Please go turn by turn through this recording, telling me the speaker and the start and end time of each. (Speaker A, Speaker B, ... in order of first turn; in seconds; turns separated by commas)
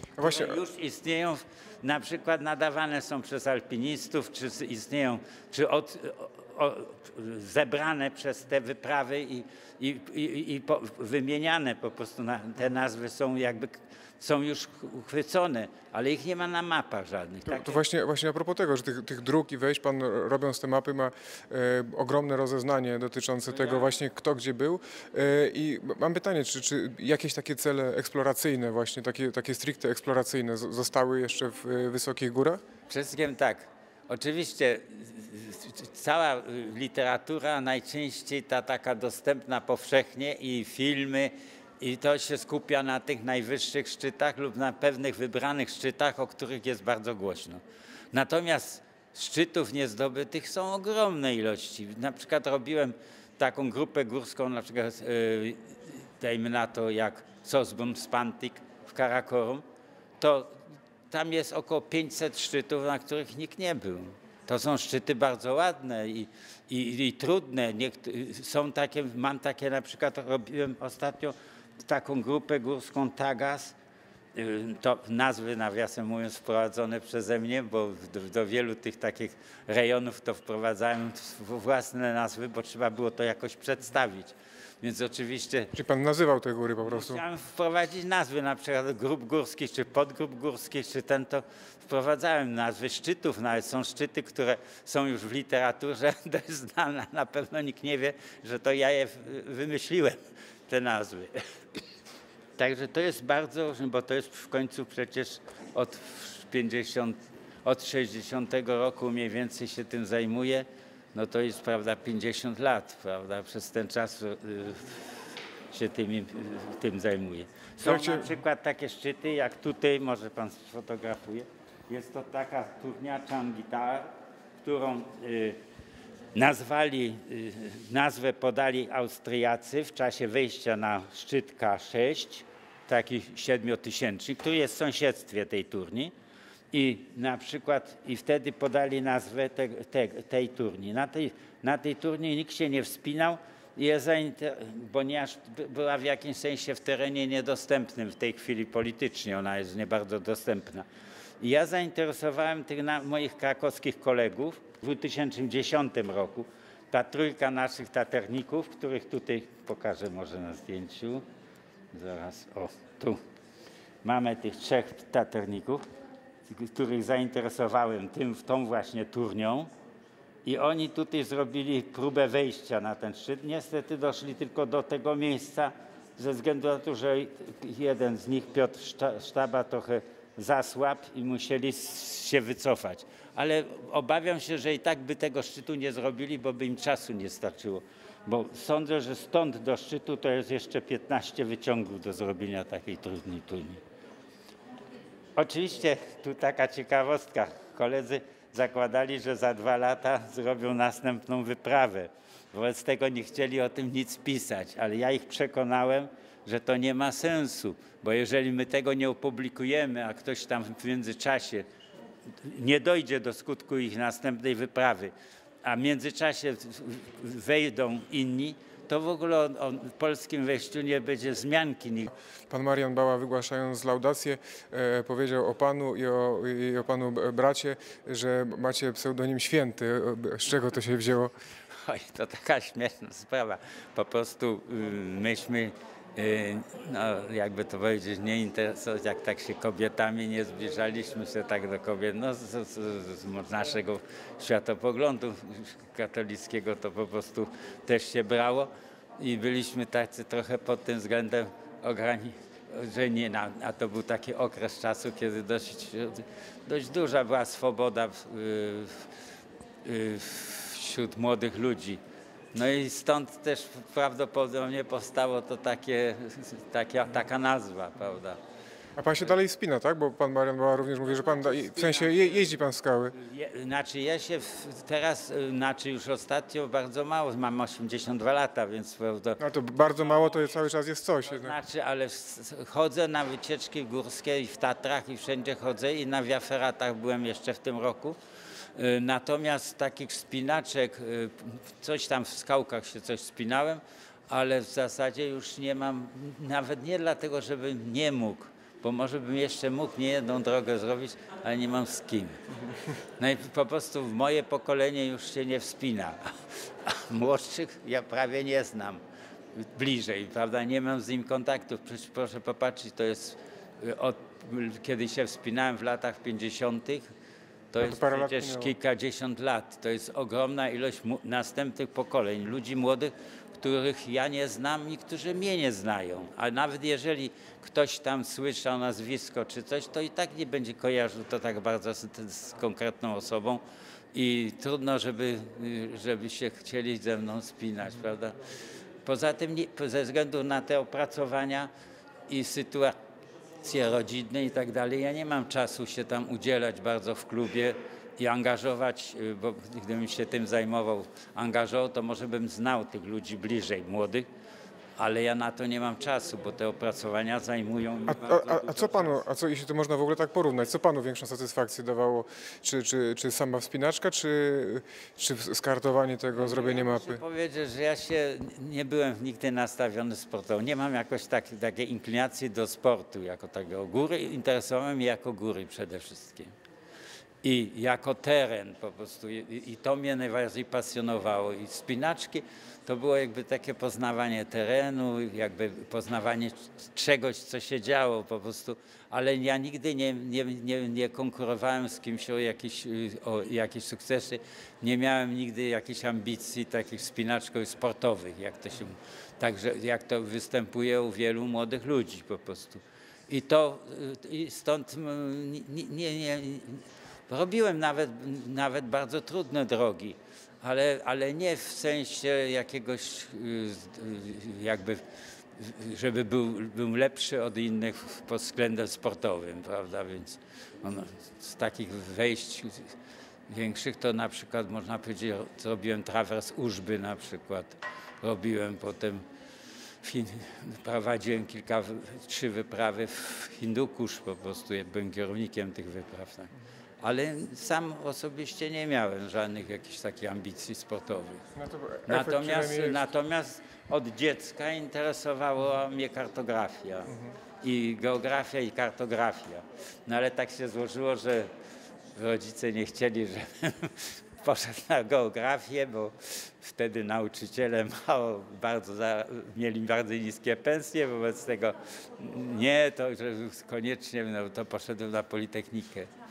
Speaker A: 0.2-0.6, Speaker B: 0.2-17.8, Speaker A: 17.5-32.6, Speaker B: 32.9-59.6, Speaker B: 60.2-60.5, Speaker B: 61.1-71.3, Speaker B: 71.8-73.7, Speaker B: 74.3-85.7, Speaker A: 85.7-87.2, Speaker B: 86.8-100.2, Speaker B: 100.7-101.4, Speaker B: 102.6-115.0, Speaker B: 115.7-124.1, Speaker A: 117.8-118.3, Speaker B: 124.6-125.6, Speaker B: 126.3-136.1, Speaker B: 136.7-150.8, Speaker B: 151.4-161.2, Speaker B: 161.9-163.2, Speaker B: 164.0-165.8, Speaker B: 166.5-169.7, Speaker B: 170.4-193.8, Speaker B: 195.3-211.7, Speaker B: 212.4-215.1, Speaker B: 215.6-222.1, Speaker A: 222.5-231.3, Speaker B: 231.8-259.0, Speaker B: 259.8-262.0, Speaker B: 262.5-268.4, Speaker A: 269.0-273.1, Speaker B: 271.0-280.5, Speaker A: 279.4-281.6, Speaker B: 281.2-288.2, Speaker B: 288.8-302.4, Speaker B: 303.2-306.3, Speaker B: 306.8-309.0, Speaker B: 309.6-317.1, Speaker B: 317.7-333.6, Speaker A: 317.8-318.7, Speaker B: 334.1-338.4, Speaker B: 339.0-341.7, Speaker B: 342.3-342.9, Speaker B: 343.6-354.3, Speaker B: 355.0-359.2, Speaker A: 358.1-367.2, Speaker B: 366.3-376.5, Speaker B: 377.4-415.0, Speaker B: 415.6-422.9, Speaker B: 423.5-429.2, Speaker B: 430.0-436.5, Speaker B: 437.0-441.4, Speaker A: 441.6-443.0, Speaker B: 442.1-451.5, Speaker B: 452.1-466.1